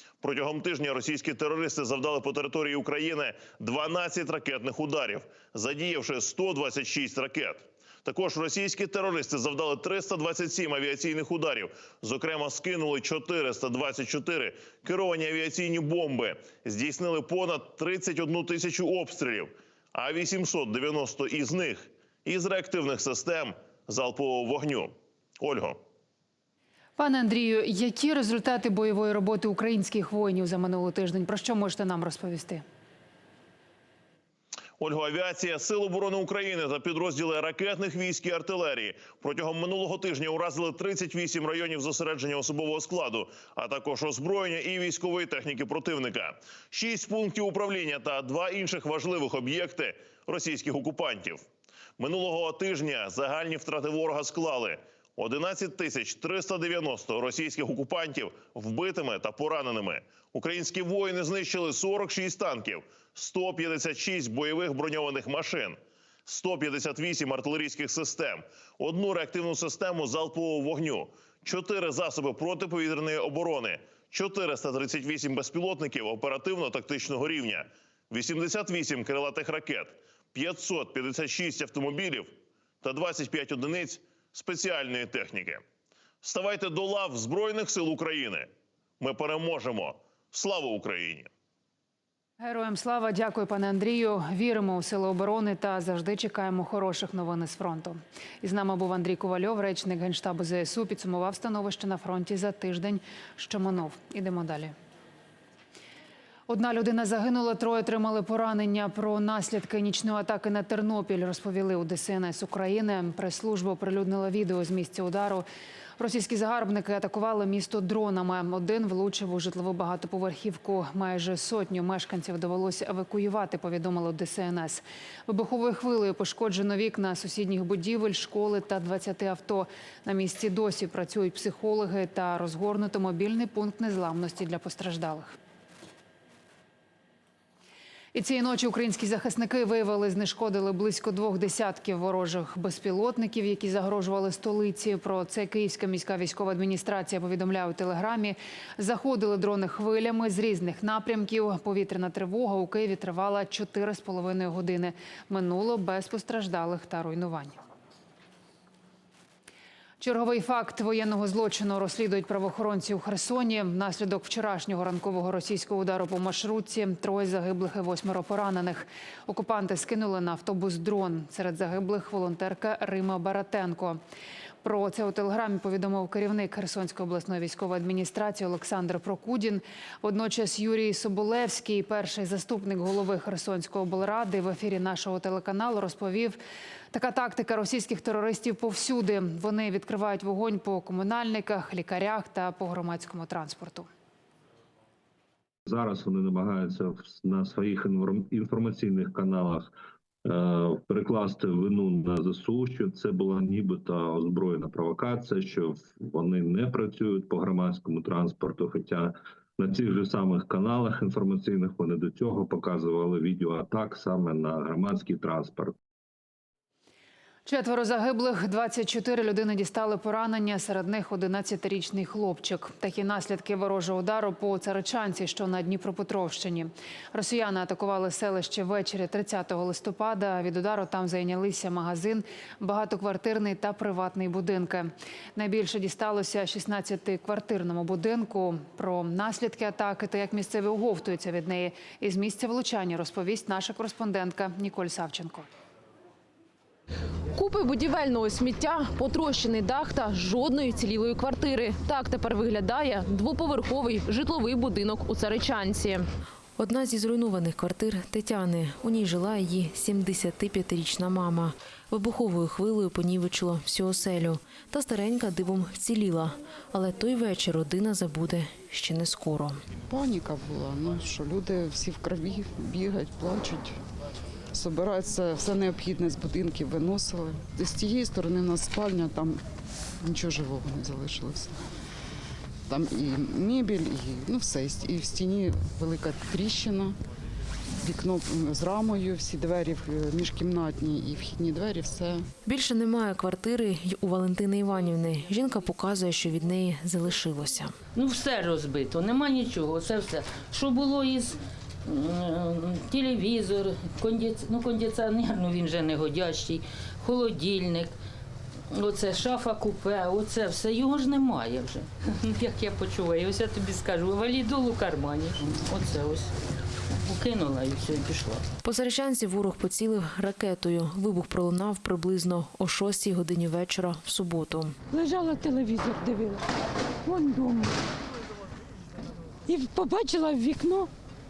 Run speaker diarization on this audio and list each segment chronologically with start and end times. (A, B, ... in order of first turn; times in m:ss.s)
0:00.2-0:25.8 A
0:27.0-0:32.6 B
0:34.8-0:51.4 A
0:52.0-1:25.6 A
1:26.2-1:28.5 A
1:29.0-1:31.3 A
1:32.4-1:44.7 B
1:46.5-1:55.5 B
1:56.0-2:15.4 B
2:18.1-2:37.6 B
2:40.0-2:54.0 B
2:54.6-3:06.4 B
3:06.9-3:13.9 B
3:15.7-3:19.7 C
3:20.2-3:35.8 C
3:37.5-4:05.5 B
4:07.4-4:16.1 D
4:16.6-4:29.6 E
4:29.9-4:33.7 F
4:34.5-4:39.4 F
4:40.0-4:41.6 F
4:42.7-4:47.0 F
4:47.8-4:52.2 F
4:52.4-4:57.8 E
4:58.0-5:01.4 G
5:01.9-5:07.9 G
5:08.8-5:16.3 G
5:17.0-5:18.4 G
5:18.6-5:24.8 E
5:24.9-5:26.4 H
5:27.1-5:27.8 H
5:29.5-5:30.9 H